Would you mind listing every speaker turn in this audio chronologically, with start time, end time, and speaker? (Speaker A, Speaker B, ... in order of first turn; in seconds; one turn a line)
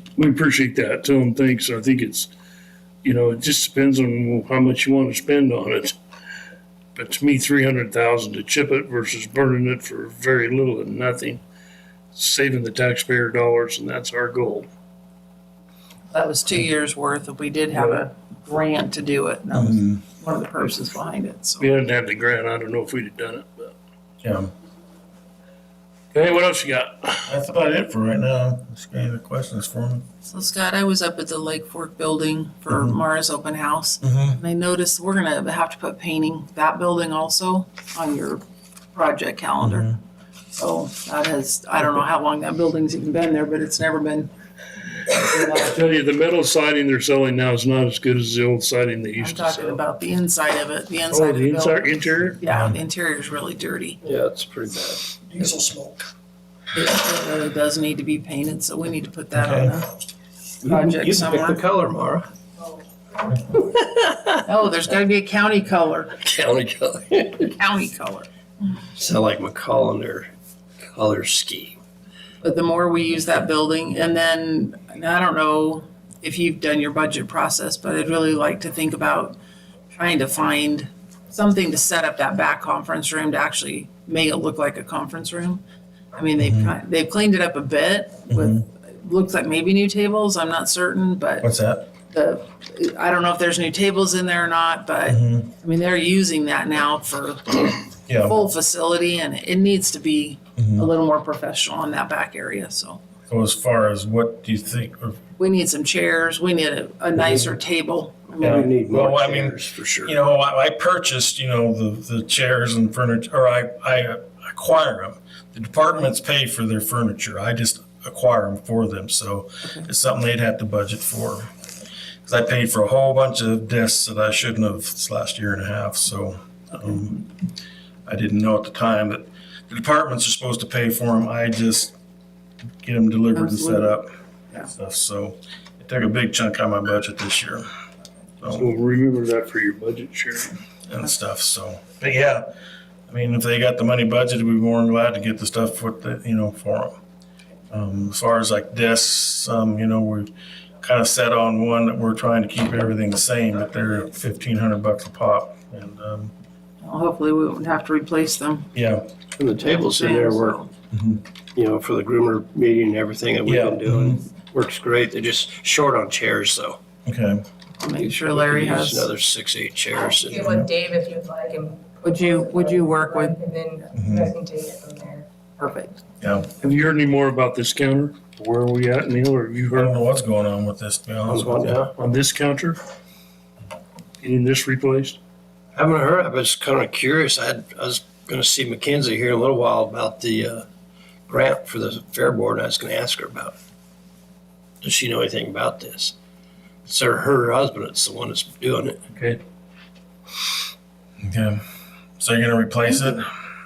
Speaker A: 0.1-2.3
Speaker A: 3.0-6.0
Speaker A: 7.0-11.4
Speaker A: 12.1-14.7
Speaker B: 16.1-21.7
Speaker A: 17.7-18.0
Speaker C: 19.5-19.9
Speaker A: 21.6-23.7
Speaker C: 24.2-24.5
Speaker A: 26.1-27.3
Speaker C: 27.3-30.0
Speaker B: 30.2-38.4
Speaker C: 32.7-33.0
Speaker C: 34.0-34.4
Speaker B: 38.9-39.9
Speaker C: 39.6-40.0
Speaker B: 40.5-44.3
Speaker B: 45.0-45.8
Speaker A: 45.6-49.8
Speaker B: 49.2-54.0
Speaker A: 51.1-52.4
Speaker C: 52.5-52.8
Speaker D: 54.0-55.2
Speaker B: 55.4-55.9
Speaker B: 56.7-59.9
Speaker C: 59.4-59.8
Speaker D: 60.6-62.3
Speaker B: 60.6-61.6
Speaker D: 63.6-64.4
Speaker B: 64.4-66.1
Speaker D: 66.2-67.5
Speaker B: 67.5-68.3
Speaker D: 69.0-70.3
Speaker D: 70.8-71.8
Speaker B: 72.4-79.4
Speaker B: 79.9-85.6
Speaker B: 86.1-91.5
Speaker C: 86.4-86.7
Speaker C: 88.3-88.6
Speaker C: 91.4-91.9
Speaker B: 92.1-103.0
Speaker C: 95.1-95.4
Speaker C: 98.1-98.3
Speaker C: 100.6-100.9
Speaker C: 103.3-105.2
Speaker B: 105.4-108.7
Speaker D: 108.4-110.1
Speaker C: 108.4-121.5
Speaker C: 122.2-127.3
Speaker C: 128.1-131.9
Speaker C: 132.8-134.1
Speaker B: 133.3-134.0
Speaker C: 134.6-137.7
Speaker C: 138.4-138.7
Speaker A: 138.5-140.6
Speaker C: 140.9-142.5
Speaker C: 143.1-147.0
Speaker C: 147.7-156.3
Speaker B: 156.8-158.7
Speaker C: 158.7-159.1
Speaker D: 159.3-160.6
Speaker B: 159.6-160.7
Speaker C: 160.9-161.2
Speaker D: 161.5-166.8
Speaker C: 163.4-164.2
Speaker C: 167.0-167.4
Speaker B: 167.8-169.1
Speaker D: 168.0-170.5
Speaker E: 170.0-175.2
Speaker B: 172.0-173.4
Speaker C: 173.9-174.3
Speaker B: 175.6-176.0
Speaker C: 176.2-176.5
Speaker A: 176.6-179.9
Speaker C: 179.7-181.8
Speaker D: 181.2-181.9
Speaker A: 181.9-182.8
Speaker A: 184.2-185.2
Speaker D: 185.7-190.6
Speaker D: 191.3-193.5
Speaker D: 194.8-196.1
Speaker D: 196.8-199.0
Speaker A: 199.1-199.4
Speaker C: 201.2-201.6
Speaker C: 202.2-203.3